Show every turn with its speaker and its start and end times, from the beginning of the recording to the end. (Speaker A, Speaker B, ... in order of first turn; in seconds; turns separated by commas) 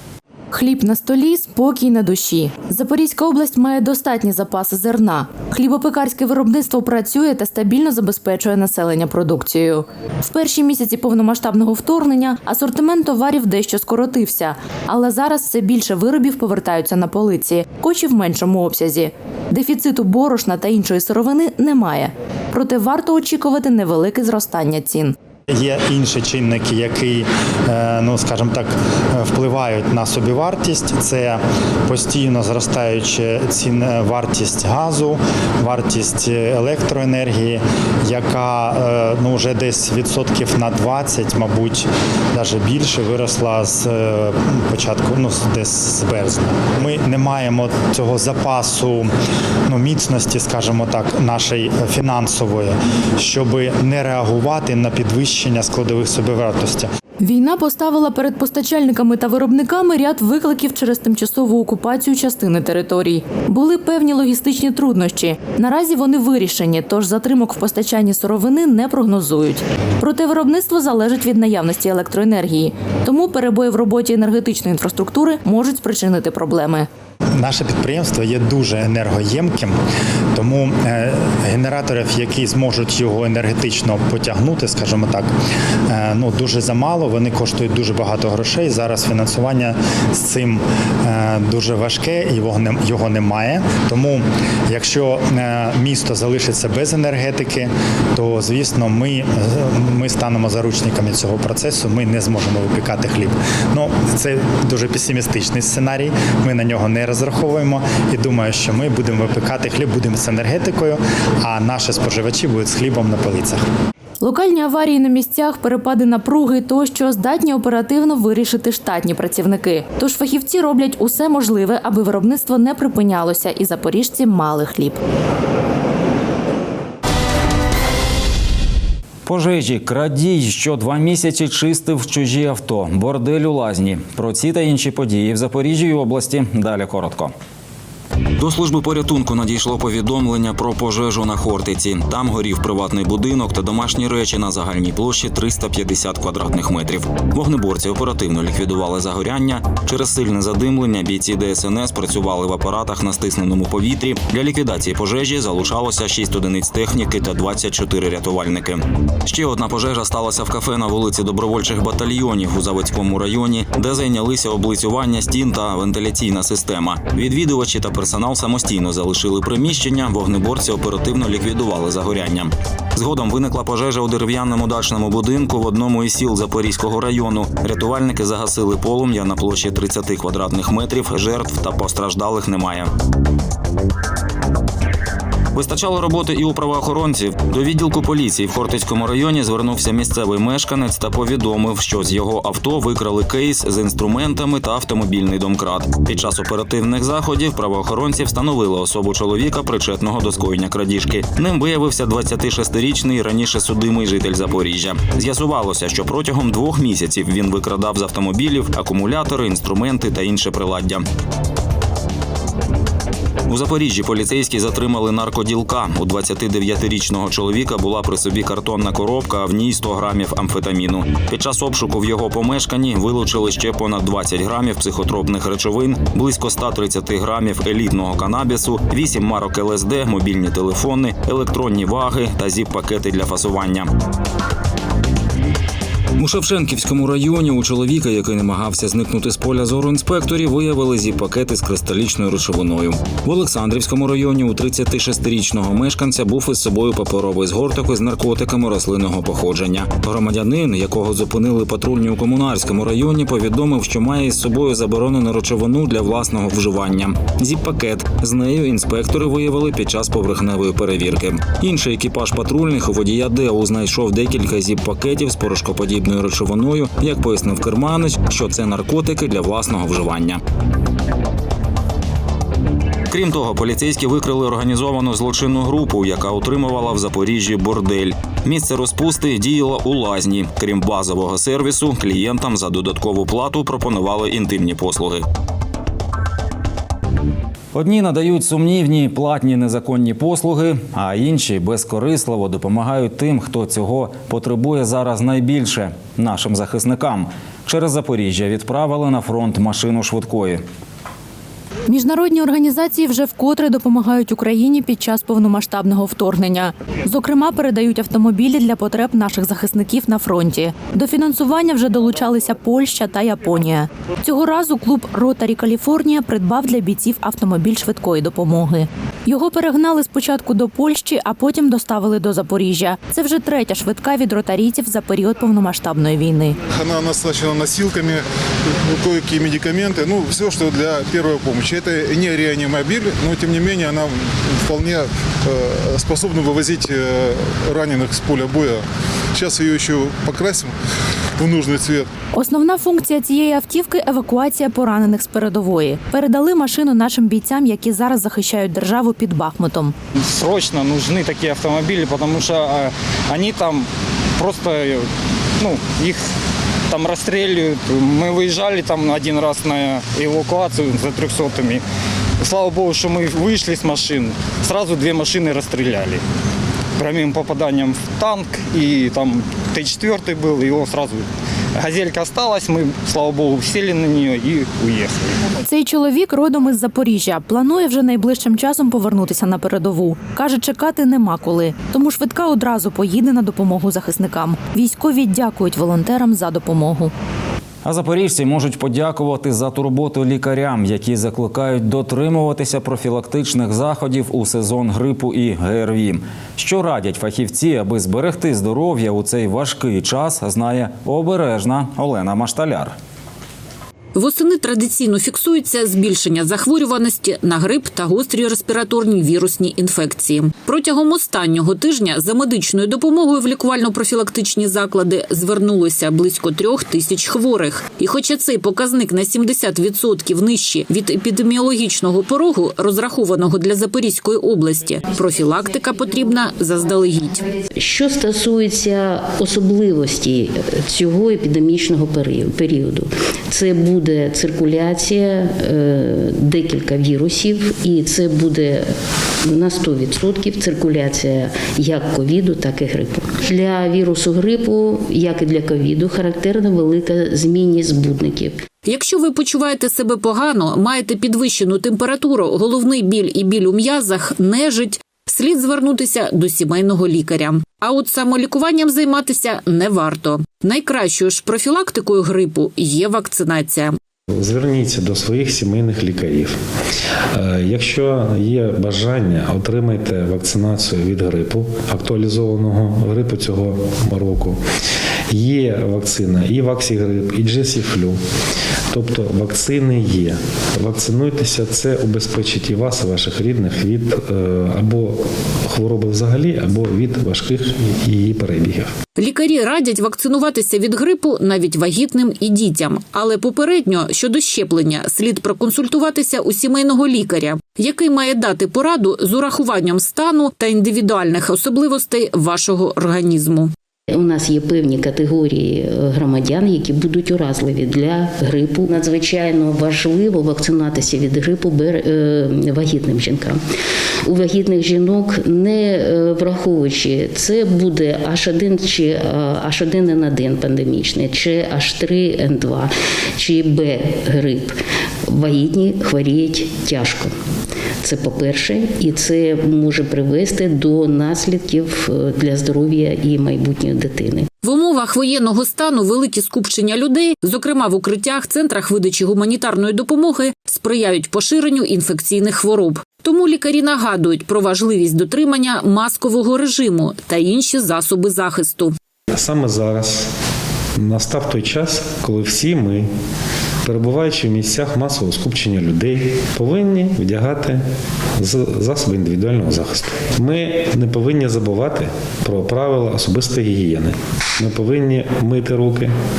Speaker A: 0.5-25.1, Speaker B: 25.5-49.1, Speaker B: 49.7-56.9, Speaker A: 57.2-76.9, Speaker B: 77.4-79.8, Speaker B: 80.3-85.3, Speaker B: 85.9-113.6, Speaker A: 114.2-125.0, Speaker C: 129.3-137.3, Speaker C: 138.4-182.9, Speaker C: 185.5-211.1, Speaker C: 213.5-233.9, Speaker C: 236.2-270.4, Speaker C: 273.1-285.2, Speaker C: 287.7-300.6, Speaker A: 301.9-326.6, Speaker D: 326.7-340.7, Speaker D: 341.4-342.1, Speaker A: 342.3-349.9, Speaker E: 350.2-355.1, Speaker E: 355.6-356.2, Speaker E: 356.9-361.8, Speaker E: 362.4-366.2, Speaker E: 367.0-371.2, Speaker E: 371.8-375.4, Speaker A: 375.6-387.1, Speaker C: 387.9-402.9, Speaker F: 404.1-427.5, Speaker G: 427.8-448.6, Speaker F: 448.9-464.0, Speaker H: 464.3-474.6, Speaker H: 475.3-478.2, Speaker H: 478.9-488.9, Speaker F: 489.2-503.7, Speaker G: 504.1-513.6, Speaker G: 514.2-527.4, Speaker G: 528.0-534.5, Speaker F: 534.6-548.9, Speaker H: 549.3-550.3, Speaker H: 551.0-553.1, Speaker H: 553.8-557.9, Speaker H: 558.4-566.1